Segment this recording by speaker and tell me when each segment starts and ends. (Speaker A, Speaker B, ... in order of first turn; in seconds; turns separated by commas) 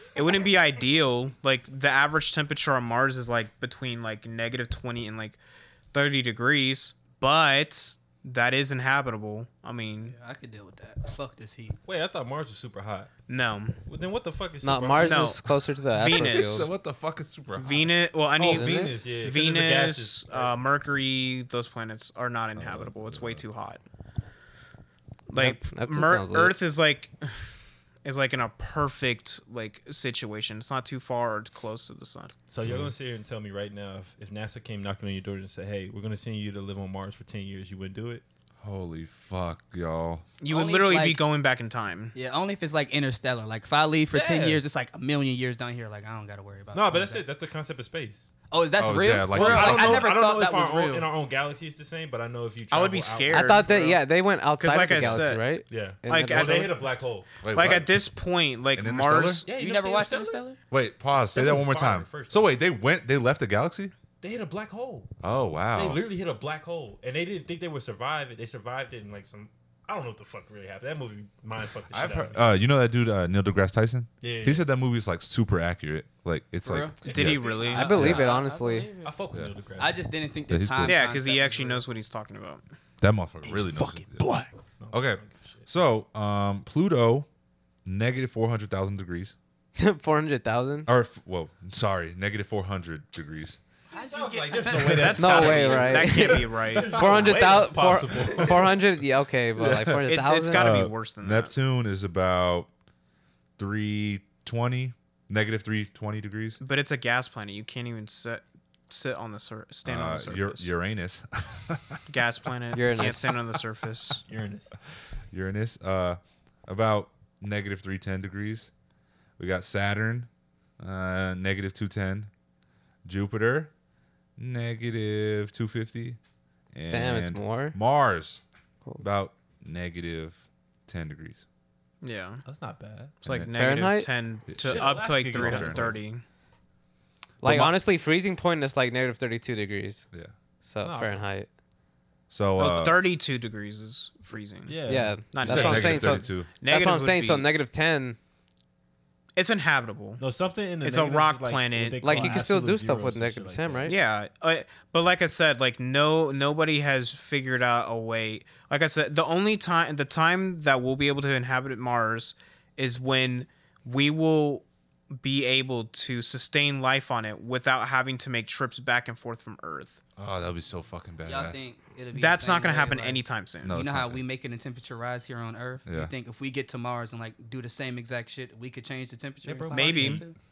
Speaker A: 0.1-5.4, Speaker A: 5.9-10.1, Speaker B: 10.0-11.8, Speaker C: 11.8-13.1, Speaker A: 13.3-13.8, Speaker C: 13.8-15.4, Speaker D: 14.6-16.7, Speaker A: 15.0-16.7, Speaker E: 16.1-17.9, Speaker A: 17.5-23.8, Speaker C: 18.4-20.5, Speaker D: 18.5-18.9, Speaker E: 22.6-23.4, Speaker A: 25.3-27.5, Speaker D: 25.3-26.5, Speaker A: 28.0-32.3, Speaker C: 32.5-38.2, Speaker E: 32.6-32.9, Speaker E: 38.6-40.2, Speaker A: 40.4-42.1, Speaker B: 40.5-41.2, Speaker B: 42.1-47.2, Speaker C: 44.1-44.6, Speaker C: 46.7-48.3, Speaker B: 48.5-51.1, Speaker E: 48.8-50.1, Speaker C: 49.3-54.0, Speaker A: 52.7-54.0, Speaker D: 53.3-56.8, Speaker A: 54.6-56.8, Speaker C: 55.7-57.3, Speaker E: 57.4-58.1, Speaker A: 57.5-59.5, Speaker E: 58.7-59.4, Speaker C: 59.4-60.4, Speaker B: 59.5-60.6, Speaker E: 60.7-63.9, Speaker C: 61.1-62.5, Speaker C: 64.2-65.1, Speaker E: 65.2-66.0, Speaker C: 65.7-72.5, Speaker E: 71.9-78.2, Speaker C: 74.2-74.7, Speaker B: 76.6-77.0, Speaker C: 77.0-78.2, Speaker A: 77.0-78.0, Speaker B: 77.5-79.2, Speaker D: 77.6-78.9, Speaker C: 79.0-80.0, Speaker B: 79.8-81.8, Speaker E: 80.5-81.0, Speaker A: 80.8-82.6, Speaker E: 83.0-84.3, Speaker C: 83.5-85.7, Speaker E: 84.9-87.3, Speaker E: 87.8-89.3, Speaker D: 89.8-90.9, Speaker E: 90.8-93.6, Speaker B: 93.9-95.6, Speaker C: 93.9-98.9, Speaker A: 94.8-97.3, Speaker D: 95.1-100.7, Speaker E: 99.6-102.7, Speaker A: 100.0-101.5, Speaker E: 103.6-106.6, Speaker A: 106.6-110.7, Speaker E: 109.8-112.0, Speaker A: 112.1-114.2, Speaker D: 112.7-113.4, Speaker C: 114.3-114.7, Speaker E: 115.3-118.7, Speaker E: 119.4-120.3, Speaker E: 120.8-122.3, Speaker E: 123.0-123.7, Speaker E: 124.4-126.2, Speaker E: 126.7-128.4, Speaker D: 126.9-127.8, Speaker E: 129.0-131.4, Speaker A: 132.0-132.4, Speaker C: 132.4-133.1, Speaker A: 133.2-136.2, Speaker E: 133.2-133.5, Speaker D: 133.5-134.1, Speaker E: 134.5-135.9, Speaker C: 134.6-136.0, Speaker E: 137.4-137.8, Speaker D: 137.4-140.1, Speaker D: 140.6-141.5, Speaker C: 140.8-141.2, Speaker E: 142.3-143.0, Speaker A: 142.6-147.5, Speaker C: 144.7-146.2, Speaker D: 144.8-148.2, Speaker E: 145.4-146.5, Speaker A: 149.3-150.2, Speaker C: 150.2-153.9, Speaker A: 150.8-152.4, Speaker D: 152.0-153.9, Speaker A: 153.8-170.0, Speaker E: 170.2-171.7, Speaker B: 171.2-180.3, Speaker A: 172.1-173.8, Speaker E: 173.6-174.2, Speaker E: 175.8-176.1, Speaker C: 179.4-180.2, Speaker A: 179.7-180.2